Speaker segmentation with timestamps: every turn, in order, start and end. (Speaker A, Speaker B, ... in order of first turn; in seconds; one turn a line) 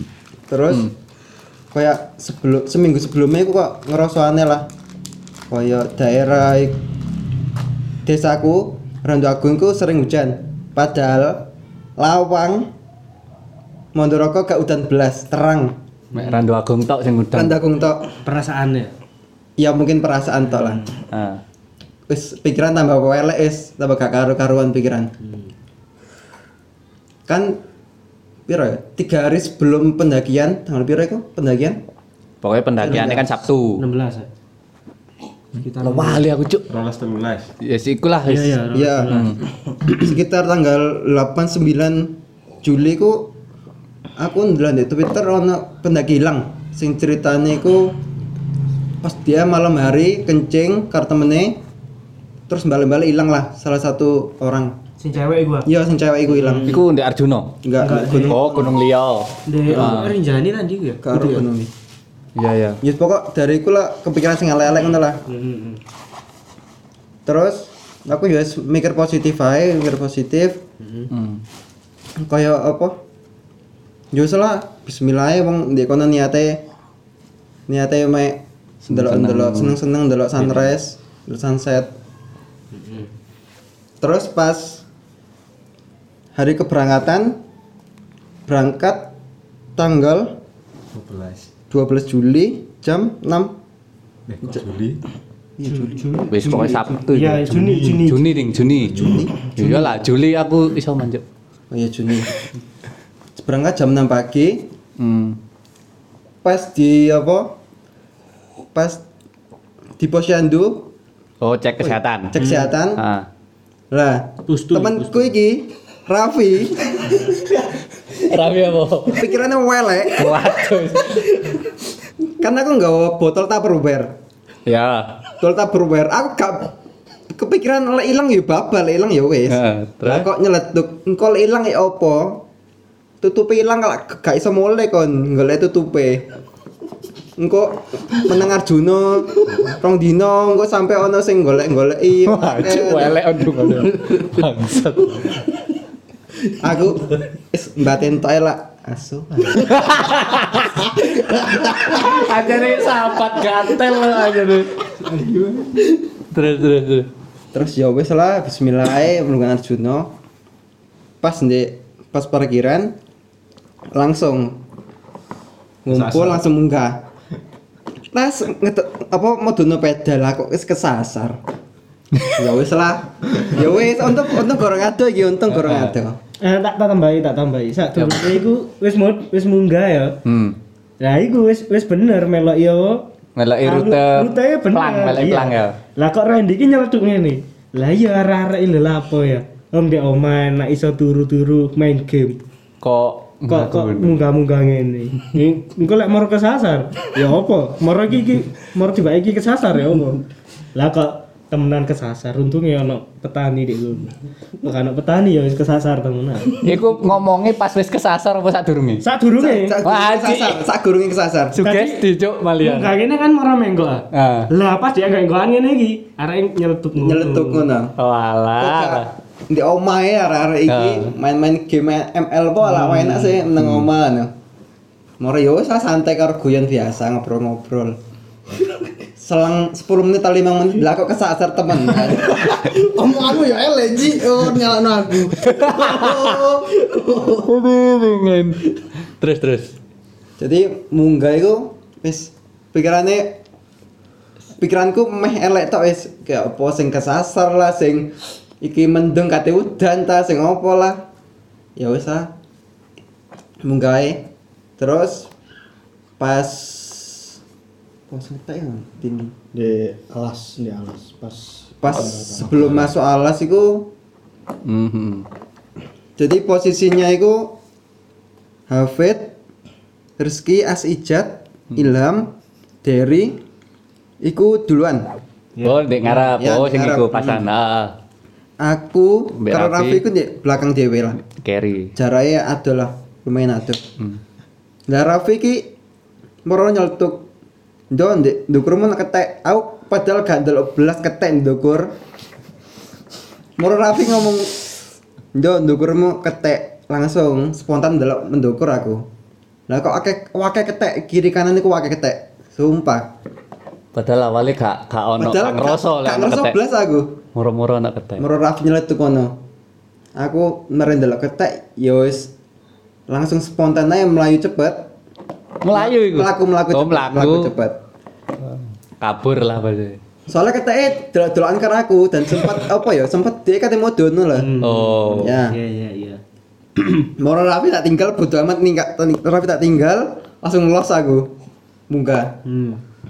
Speaker A: 0.5-0.9
Speaker A: 1.7-4.7
Speaker A: 5.5-6.8
Speaker A: 8.1-11.5
Speaker A: 12.0-12.7
Speaker A: 13.9-15.8
Speaker B: 16.1-16.4
Speaker C: 16.1-17.6
Speaker A: 17.3-18.1
Speaker B: 18.2-18.9
Speaker A: 19.6-20.9
Speaker B: 20.6-20.9
Speaker C: 21.1-21.4
Speaker A: 22.1-25.1
Speaker B: 25.2-25.5
Speaker A: 27.3-27.6
Speaker A: 28.5-31.8
Speaker C: 32.4-33.8
Speaker B: 32.8-33.2
Speaker B: 33.8-34.3
Speaker B: 35.6-36.3
Speaker C: 35.8-36.7
Speaker D: 36.7-37.5
Speaker C: 37.6-39.4
Speaker B: 38.3-39.5
Speaker A: 38.7-39.3
Speaker A: 39.9-43.3
Speaker A: 44.2-48.0
Speaker A: 49.0-51.6
Speaker A: 52.5-54.8
Speaker B: 55.0-55.7
Speaker A: 55.6-56.8
Speaker B: 56.3-56.8
Speaker C: 56.7-57.6
Speaker A: 57.6-58.8
Speaker B: 57.8-58.4
Speaker C: 58.1-60.2
Speaker B: 59.5-61.5
Speaker A: 61.0-61.7
Speaker C: 62.4-62.8
Speaker A: 62.8-65.2
Speaker B: 65.3-65.8
Speaker A: 67.3-70.6
Speaker B: 70.8-71.1
Speaker C: 71.1-71.4
Speaker A: 72.2-73.0
Speaker A: 74.1-76.6
Speaker A: 77.7-81.9
Speaker C: 78.9-79.8
Speaker B: 82.7-83.1
Speaker A: 84.0-84.8
Speaker A: 86.3-87.4
Speaker A: 88.5-89.1
Speaker A: 89.8-90.4
Speaker D: 90.9-91.5
Speaker A: 91.7-93.5
Speaker D: 94.3-95.0
Speaker B: 95.7-98.2
Speaker D: 95.7-96.8
Speaker C: 96.3-101.2
Speaker D: 97.5-98.0
Speaker D: 98.8-99.3
Speaker A: 99.0-99.3
Speaker A: 101.7-102.3
Speaker A: 103.4-104.7
Speaker C: 105.0-105.4
Speaker A: 106.4-107.5
Speaker A: 108.7-109.0
Speaker A: 110.0-110.9
Speaker C: 111.4-112.4
Speaker A: 112.3-113.0
Speaker B: 112.4-112.7
Speaker C: 113.0-113.3
Speaker A: 113.9-117.3
Speaker B: 114.5-115.3
Speaker C: 118.1-119.2
Speaker A: 119.1-120.5
Speaker C: 120.2-121.3
Speaker A: 122.4-124.2
Speaker C: 124.7-125.2
Speaker A: 125.4-126.7
Speaker A: 127.3-132.4
Speaker C: 129.5-130.3
Speaker A: 133.2-136.3
Speaker A: 137.4-143.2
Speaker C: 142.2-145.5
Speaker A: 146.6-149.8
Speaker C: 149.6-151.0
Speaker C: 151.8-154.8
Speaker D: 154.9-155.7
Speaker C: 156.3-157.1
Speaker A: 157.5-160.1
Speaker A: 161.2-163.0
Speaker A: 163.9-164.6
Speaker A: 165.8-167.1
Speaker D: 165.9-166.4
Speaker A: 168.1-171.4
Speaker A: 172.4-176.2
Speaker C: 175.5-175.9
Speaker B: 176.4-180.2
Speaker C: 178.0-178.2
Speaker C: 180.2-180.6
Speaker B: 181.0-183.1
Speaker C: 183.4-185.8
Speaker B: 183.7-192.4
Speaker C: 192.8-194.2
Speaker B: 193.5-200.2
Speaker B: 200.7-206.7
Speaker C: 206.6-209.0
Speaker B: 209.0-209.8
Speaker A: 209.4-211.6
Speaker C: 209.8-210.6
Speaker C: 211.5-212.9
Speaker B: 211.6-212.0
Speaker B: 212.6-217.7
Speaker C: 214.1-214.5
Speaker A: 216.9-217.9
Speaker C: 218.0-219.1
Speaker A: 218.6-224.3
Speaker C: 220.7-221.1
Speaker B: 222.7-223.4
Speaker C: 223.6-223.8
Speaker A: 225.2-228.0
Speaker A: 229.2-232.6
Speaker E: 232.3-237.4
Speaker C: 235.4-236.5
Speaker C: 237.1-239.8
Speaker A: 240.4-243.4
Speaker A: 244.6-251.0
Speaker A: 251.8-252.3
Speaker A: 253.6-254.3
Speaker A: 254.8-255.3
Speaker A: 256.2-257.4
Speaker A: 258.1-259.3
Speaker E: 259.5-262.4
Speaker A: 261.8-263.9
Speaker C: 264.6-265.2
Speaker A: 266.2-267.6
Speaker A: 268.7-269.4
Speaker A: 270.2-272.3
Speaker A: 272.8-273.4
Speaker A: 274.2-275.1
Speaker C: 275.6-277.9
Speaker A: 276.1-277.4
Speaker A: 278.6-281.2
Speaker C: 279.4-280.0
Speaker C: 281.3-281.9
Speaker A: 282.0-283.8
Speaker A: 284.9-285.7
Speaker A: 286.5-287.3
Speaker A: 287.9-291.9
Speaker A: 293.6-294.7
Speaker A: 295.4-299.1
Speaker A: 299.7-303.1
Speaker C: 303.9-306.6
Speaker A: 305.2-307.2
Speaker C: 307.4-308.3
Speaker A: 308.2-309.4
Speaker A: 310.2-312.3
Speaker A: 313.1-314.9
Speaker C: 315.6-317.5
Speaker A: 315.7-317.8
Speaker C: 319.0-320.0
Speaker A: 320.3-324.5
Speaker B: 324.4-326.2
Speaker C: 324.6-325.3
Speaker A: 325.2-325.6
Speaker A: 327.0-331.3
Speaker A: 331.9-332.4
Speaker B: 332.5-332.8